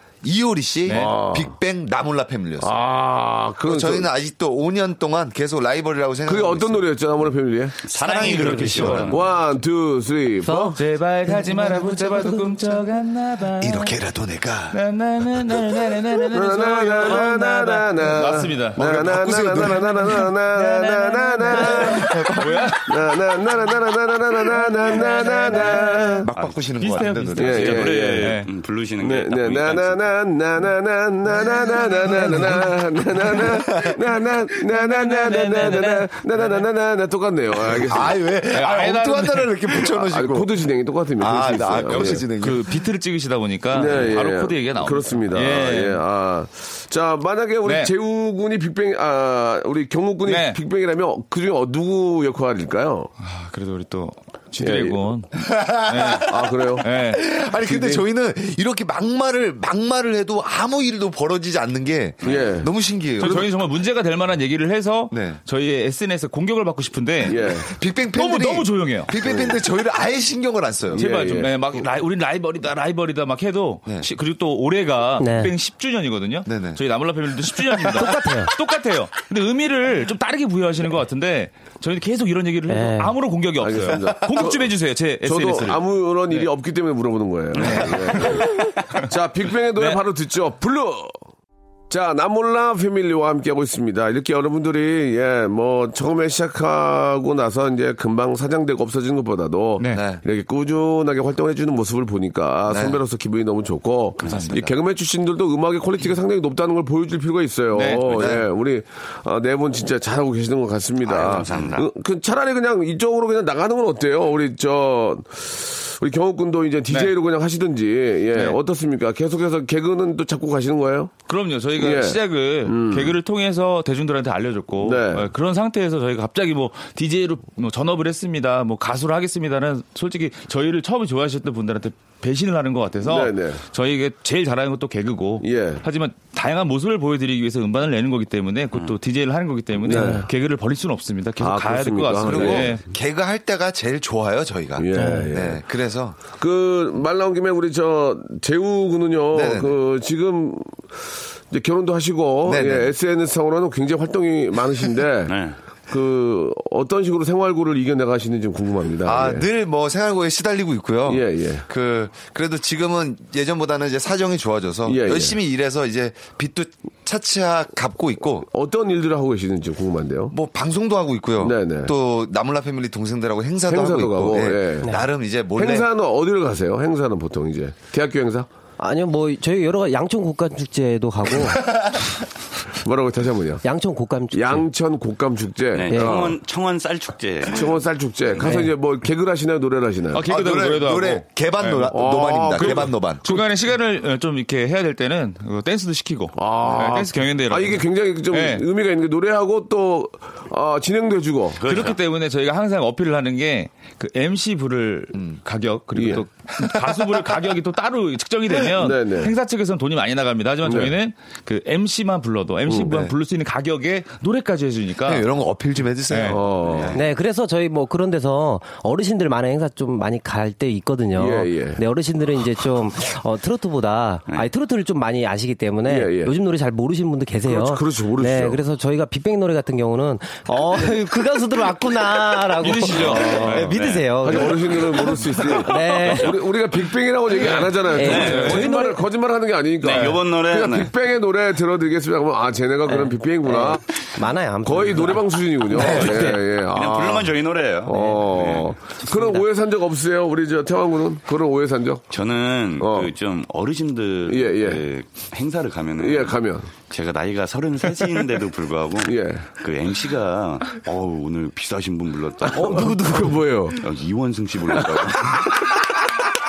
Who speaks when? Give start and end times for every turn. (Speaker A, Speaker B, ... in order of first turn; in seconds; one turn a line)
Speaker A: 0.2-2.8
Speaker B: 0.9-1.1
Speaker C: 0.9-1.5
Speaker C: 2.6-4.1
Speaker A: 3.6-6.9
Speaker C: 6.3-7.8
Speaker D: 7.8-9.3
Speaker A: 7.9-9.2
Speaker B: 8.2-9.2
Speaker C: 9.1-10.8
Speaker E: 10.4-10.8
Speaker B: 10.8-14.0
Speaker E: 11.5-12.2
Speaker A: 13.6-14.8
Speaker B: 14.7-18.8
Speaker C: 16.3-26.3
Speaker A: 18.8-20.3
Speaker B: 20.6-22.9
Speaker A: 21.6-22.8
Speaker B: 24.9-25.9
Speaker A: 26.2-28.0
Speaker D: 26.4-30.1
Speaker B: 26.8-28.5
Speaker C: 27.4-28.4
Speaker C: 29.0-38.2
Speaker A: 33.3-34.0
Speaker B: 34.7-36.6
Speaker A: 37.6-40.5
Speaker B: 38.5-39.7
Speaker C: 39.9-42.3
Speaker A: 41.2-42.9
Speaker B: 42.0-46.0
Speaker C: 43.7-53.1
Speaker B: 47.6-47.9
Speaker B: 50.2-50.6
Speaker B: 53.2-57.2
Speaker C: 54.6-55.0
Speaker A: 55.4-56.3
Speaker C: 56.3-56.9
Speaker A: 57.0-63.5
Speaker C: 57.6-58.0
Speaker C: 62.2-62.7
Speaker B: 63.2-67.5
Speaker A: 65.1-65.4
Speaker C: 67.3-67.7
Speaker A: 67.7-71.1
Speaker B: 68.1-69.2
Speaker B: 70.9-86.5
Speaker C: 71.0-71.5
Speaker E: 75.2-75.5
Speaker A: 76.5-76.8
Speaker E: 77.9-78.5
Speaker E: 82.7-83.2
Speaker C: 83.6-84.7
Speaker C: 85.2-91.1
Speaker B: 87.5-89.1
Speaker B: 89.8-90.0
Speaker C: 91.9-121.2
Speaker B: 99.8-100.1
Speaker A: 99.9-100.2
Speaker A: 102.7-103.0
Speaker B: 104.2-104.7
Speaker B: 107.7-108.4
Speaker A: 108.0-108.5
Speaker D: 111.1-111.9
Speaker A: 111.2-111.8
Speaker B: 116.9-117.1
Speaker B: 121.3-142.8
Speaker C: 121.8-123.2
Speaker C: 124.8-125.3
Speaker C: 133.0-133.6
Speaker C: 135.4-135.8
Speaker C: 139.8-140.3
Speaker E: 139.9-140.2
Speaker C: 141.4-142.7
Speaker A: 142.2-146.2
Speaker C: 144.8-145.6
Speaker E: 145.0-145.3
Speaker C: 146.4-150.7
Speaker A: 149.3-149.8
Speaker C: 151.5-155.4
Speaker A: 152.4-152.9
Speaker D: 155.3-155.6
Speaker C: 155.9-159.5
Speaker A: 159.1-168.5
Speaker C: 161.1-161.7
Speaker C: 164.9-165.4
Speaker C: 168.5-170.3
Speaker A: 170.3-175.9
Speaker C: 171.4-171.9
Speaker C: 173.7-174.9
Speaker C: 175.6-178.5
Speaker E: 178.8-181.8
Speaker C: 182.8-183.6
Speaker E: 183.6-184.7
Speaker C: 184.3-186.4
Speaker D: 185.7-187.8
Speaker E: 185.9-186.2
Speaker C: 187.5-190.2
Speaker E: 188.4-188.7
Speaker B: 190.1-192.0
Speaker A: 190.3-193.3
Speaker C: 191.9-193.4
Speaker B: 192.5-198.7
Speaker C: 196.4-201.9
Speaker D: 201.6-202.0
Speaker B: 201.6-215.3
Speaker A: 205.2-205.4
Speaker C: 205.9-206.2
Speaker C: 208.8-209.3
Speaker C: 210.6-211.0
Speaker A: 215.0-217.0
Speaker B: 216.1-216.4
Speaker C: 216.3-217.0
Speaker E: 216.9-234.8
Speaker C: 221.2-221.8
Speaker C: 225.9-226.3
Speaker C: 227.5-228.6
Speaker B: 232.6-233.8
Speaker D: 233.6-234.8
Speaker C: 234.2-243.8
Speaker E: 235.5-236.4
Speaker B: 237.4-238.7
Speaker E: 237.9-239.1
Speaker D: 238.0-238.7
Speaker D: 239.8-240.9
Speaker E: 242.9-246.4
Speaker C: 244.7-252.1
Speaker D: 245.7-248.8
Speaker D: 252.1-263.0
Speaker C: 252.8-253.1
Speaker C: 254.3-254.9
Speaker C: 256.0-256.7
Speaker C: 259.1-259.5
Speaker C: 262.5-263.8
Speaker D: 263.8-265.6
Speaker C: 264.8-265.4